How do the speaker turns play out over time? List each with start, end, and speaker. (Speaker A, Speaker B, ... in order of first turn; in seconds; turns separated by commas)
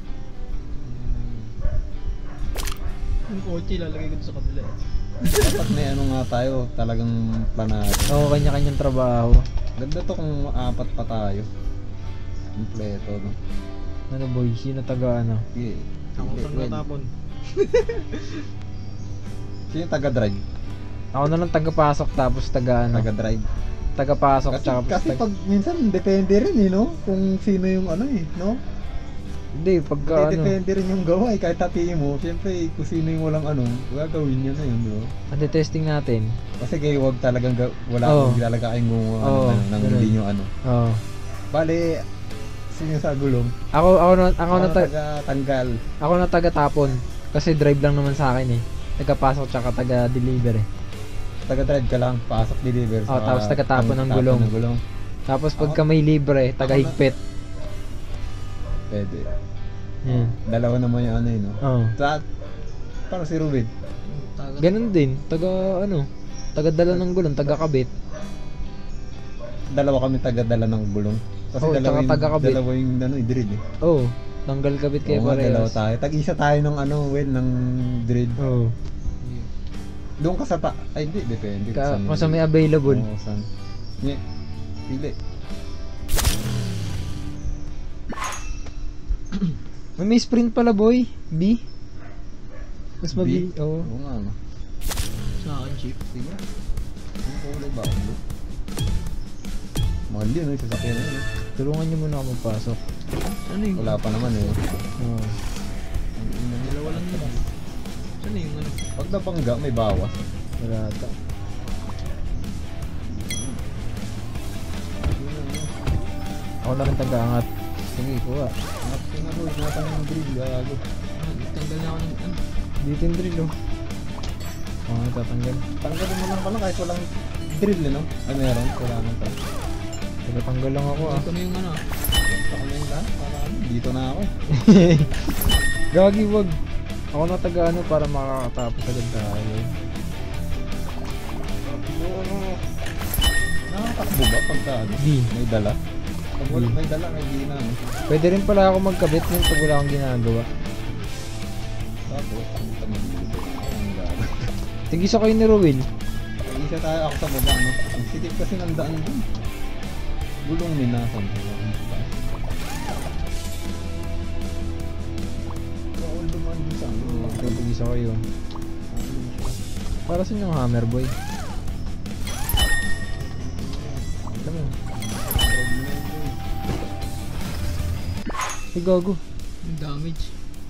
Speaker A: 0.7-1.6, Speaker A: 3.3-5.6, Speaker B: 5.4-8.2, Speaker C: 8.1-9.5, Speaker B: 9.8-11.5, Speaker B: 12.6-13.4, Speaker C: 14.1-15.4, Speaker B: 15.5-16.8, Speaker A: 16.2-18.5, Speaker B: 19.7-20.4, Speaker C: 21.1-23.1, Speaker B: 22.9-23.5, Speaker C: 24.0-25.2, Speaker B: 24.5-28.6, Speaker C: 29.5-30.5, Speaker B: 30.0-35.1, Speaker C: 35.3-36.4, Speaker B: 36.6-40.5, Speaker C: 38.0-38.4, Speaker C: 39.2-40.1, Speaker C: 40.6-41.0, Speaker B: 41.5-42.0, Speaker B: 42.7-43.5, Speaker C: 43.7-44.9, Speaker B: 44.5-45.8, Speaker C: 46.0-50.7, Speaker B: 51.5-54.8, Speaker C: 53.1-54.5, Speaker C: 55.3-57.1, Speaker B: 56.6-57.0, Speaker B: 58.9-59.3, Speaker C: 60.0-60.3, Speaker B: 60.1-62.2, Speaker C: 61.6-61.9, Speaker B: 63.1-63.7, Speaker A: 64.0-64.7, Speaker C: 64.6-67.9, Speaker B: 66.9-67.6, Speaker B: 69.7-73.6, Speaker C: 71.6-72.6, Speaker C: 73.8-75.7, Speaker B: 75.0-78.4, Speaker C: 78.4-78.7, Speaker A: 79.2-79.5, Speaker B: 80.2-83.5, Speaker C: 81.7-83.0, Speaker B: 84.9-85.1, Speaker C: 90.0-91.6, Speaker C: 93.0-93.9, Speaker B: 93.1-94.4, Speaker A: 95.4-96.0, Speaker B: 96.1-96.4, Speaker B: 97.2-98.2, Speaker B: 100.1-101.3, Speaker C: 101.6-102.8, Speaker A: 103.5-104.6, Speaker B: 103.8-104.6, Speaker C: 105.0-105.3, Speaker B: 106.2-107.3, Speaker A: 106.6-107.4, Speaker A: 108.2-108.9, Speaker B: 109.0-110.3, Speaker C: 110.6-111.1, Speaker B: 113.1-113.6, Speaker B: 115.0-115.8, Speaker C: 116.6-118.5, Speaker B: 118.8-120.8, Speaker A: 121.1-122.4, Speaker C: 122.8-123.5, Speaker C: 124.9-125.6, Speaker B: 125.8-129.3, Speaker C: 130.2-131.2, Speaker A: 130.9-131.8, Speaker B: 132.2-134.3, Speaker C: 134.5-135.1, Speaker C: 135.9-136.6, Speaker C: 137.1-139.7, Speaker B: 141.7-142.4, Speaker B: 143.7-145.8, Speaker C: 145.0-145.3, Speaker B: 146.4-147.8, Speaker C: 148.1-150.5, Speaker B: 152.1-154.5, Speaker C: 154.9-155.9, Speaker B: 156.4-159.2, Speaker B: 160.4-162.1, Speaker B: 165.9-167.6, Speaker C: 167.0-168.3, Speaker B: 168.9-169.6, Speaker C: 170.1-171.1, Speaker B: 173.1-176.4, Speaker C: 174.4-174.7, Speaker C: 178.7-179.2, Speaker A: 179.6-180.3